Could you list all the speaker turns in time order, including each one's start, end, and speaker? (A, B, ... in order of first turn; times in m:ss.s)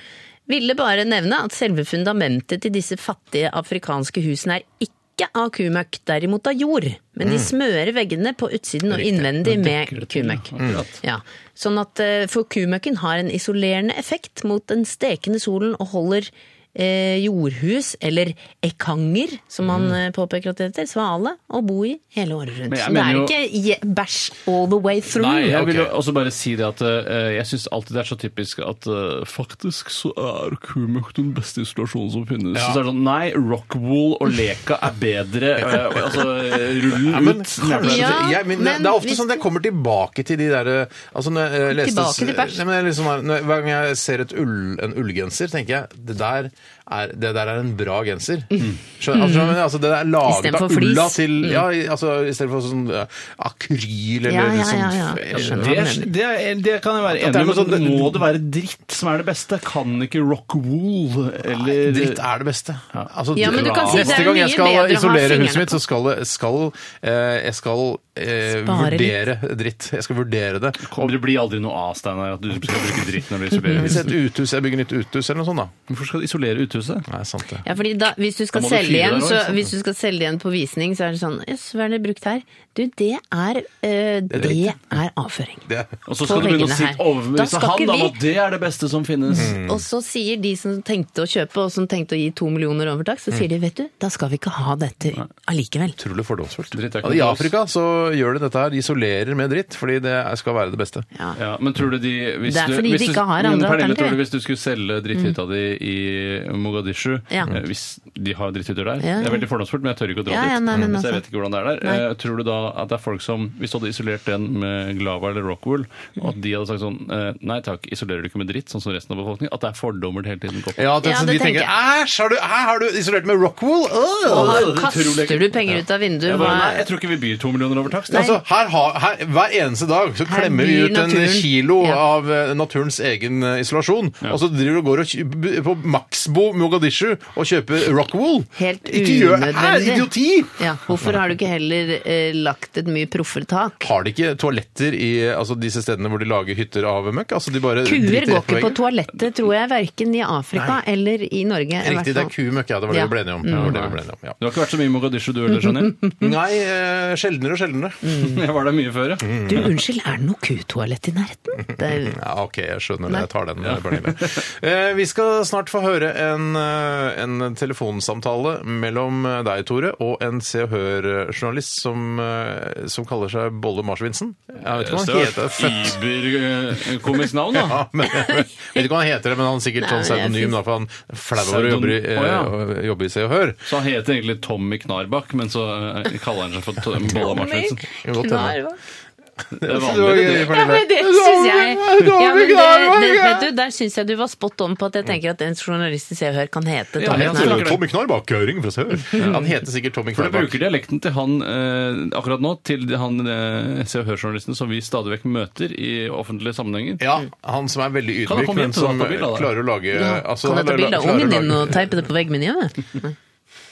0:00.5-0:25.5 A
0:07.2-0:07.5 B
0:09.1-0:11.0 C
0:10.6-0:10.8 B
0:22.7-0:23.4 C
0:25.1-0:25.9 B
0:25.4-0:38.2 C
0:32.5-0:32.8 B
0:36.9-0:55.9 B
0:37.8-0:39.4 A
0:41.7-0:42.6 A
0:48.6-0:49.6 A
0:50.2-0:51.6 A
0:54.3-0:56.1 A
0:55.3-1:02.2 C
0:57.1-0:58.2 B
1:01.5-1:11.2 B
1:02.9-1:04.3 C
1:03.4-1:05.8 A
1:08.5-1:09.2 A
1:10.8-1:14.1 C
1:13.7-1:15.7 B
1:15.9-1:17.1 C
1:17.1-1:17.7 B
1:17.6-1:25.6 A
1:18.5-1:19.6 C
1:24.3-1:24.8 B
1:25.7-1:25.9 B
1:26.1-1:29.5 C
1:26.2-1:28.2 A
1:29.3-1:36.0 A
1:29.3-1:29.8 B
1:36.0-1:41.0 B
1:36.7-1:37.5 C
1:41.4-2:00.8 C
1:42.5-1:44.2 A
1:49.0-1:49.4 A
1:50.3-1:51.2 A
2:00.8-2:04.7 B
2:01.0-2:01.7 A
2:04.3-2:06.8 A
2:04.3-2:08.3 C
2:08.1-2:08.4 A
2:08.1-2:21.1 B
2:10.3-2:12.0 A
2:18.6-2:23.9 A
2:23.8-2:28.8 B
2:27.8-2:32.3 A
2:31.8-2:34.4 B
2:32.9-2:33.7 A
2:33.5-2:36.0 C
2:35.6-2:36.2 A
2:36.2-2:38.0 B
2:38.0-2:38.4 A
2:38.2-2:39.4 C
2:39.2-2:39.7 B
2:39.4-2:42.2 A
2:41.7-2:56.0 B
2:43.7-2:44.4 C
2:54.7-2:57.8 C
2:57.5-3:03.6 B
2:58.2-2:58.4 A
2:59.8-3:00.6 A
3:01.4-3:02.5 C
3:03.7-3:07.9 C
3:07.2-3:08.8 A
3:08.0-3:08.6 B
3:09.6-3:10.7 C
3:09.6-3:13.5 B
3:10.4-3:17.8 A
3:17.0-3:17.8 C
3:17.1-3:20.6 B
3:19.2-3:19.4 C
3:20.1-3:27.0 C
3:27.0-3:32.0 B
3:28.3-3:29.6 C
3:29.9-3:33.1 A